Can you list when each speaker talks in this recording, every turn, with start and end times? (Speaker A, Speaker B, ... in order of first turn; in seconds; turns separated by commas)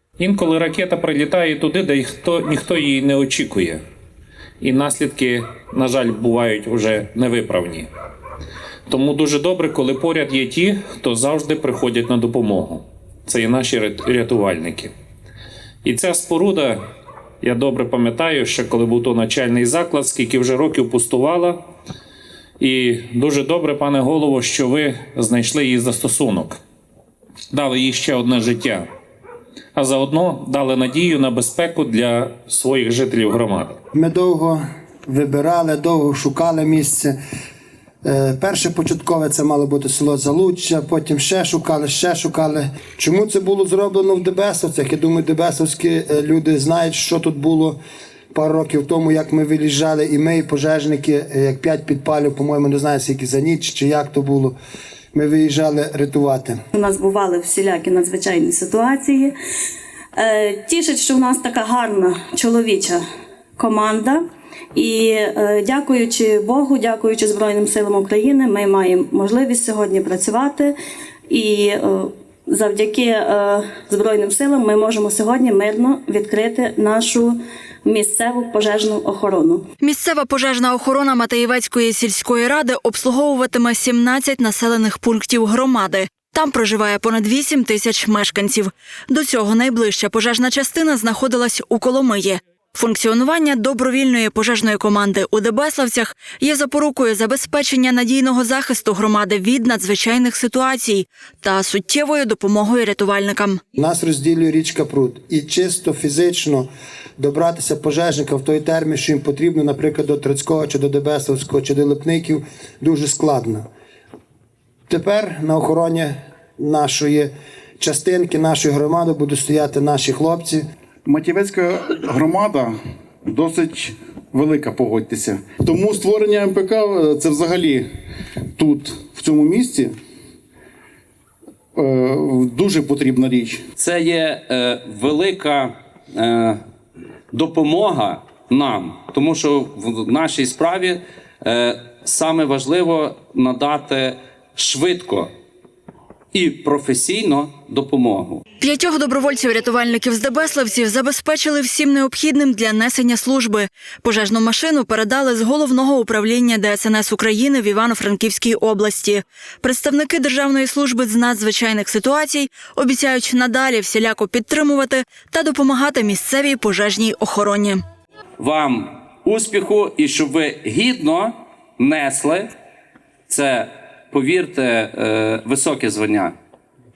Speaker A: 0.2-3.8, Speaker A: 4.6-7.9, Speaker A: 8.9-14.9, Speaker A: 15.8-16.8, Speaker A: 17.4-21.6, Speaker A: 22.6-26.6, Speaker A: 27.5-28.8, Speaker A: 29.7-33.8, Speaker B: 33.9-37.1, Speaker B: 38.0-47.8, Speaker B: 48.3-54.5, Speaker B: 55.1-56.6, Speaker C: 56.7-59.3, Speaker C: 60.1-63.0, Speaker C: 63.6-64.2, Speaker C: 64.7-70.7, Speaker C: 71.3-79.6, Speaker D: 79.8-103.6, Speaker B: 103.8-106.7, Speaker B: 107.2-113.7, Speaker B: 114.9-120.7, Speaker E: 121.0-122.7, Speaker E: 123.2-127.8, Speaker E: 128.6-129.9, Speaker E: 131.8-133.6, Speaker F: 133.8-136.6, Speaker F: 137.3-145.3, Speaker F: 146.3-148.4, Speaker D: 148.6-167.8, Speaker F: 168.4-172.5, Speaker F: 173.3-176.3